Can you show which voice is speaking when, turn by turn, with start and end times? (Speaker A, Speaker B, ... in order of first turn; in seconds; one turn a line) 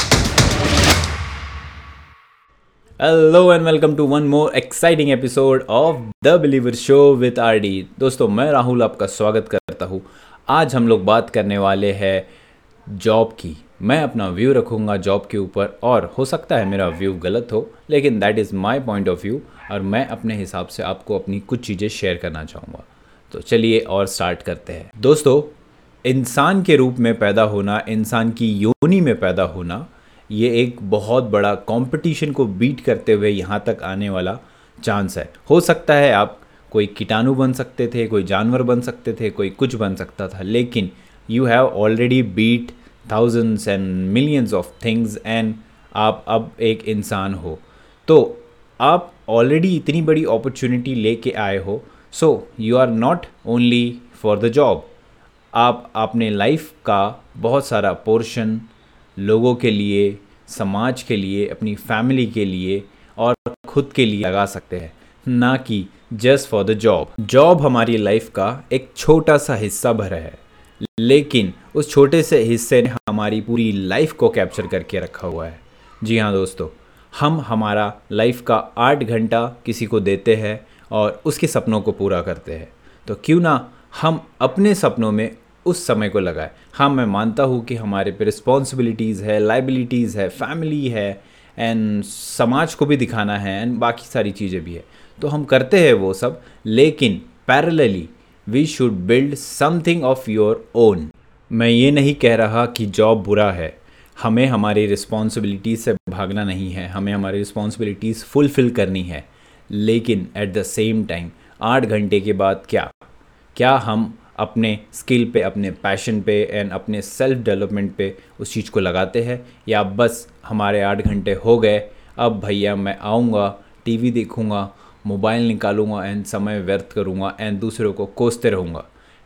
Speaker A: 3.0-12.3
Speaker A: 12.9-54.9
Speaker A: 55.5-112.9
Speaker A: 113.5-128.9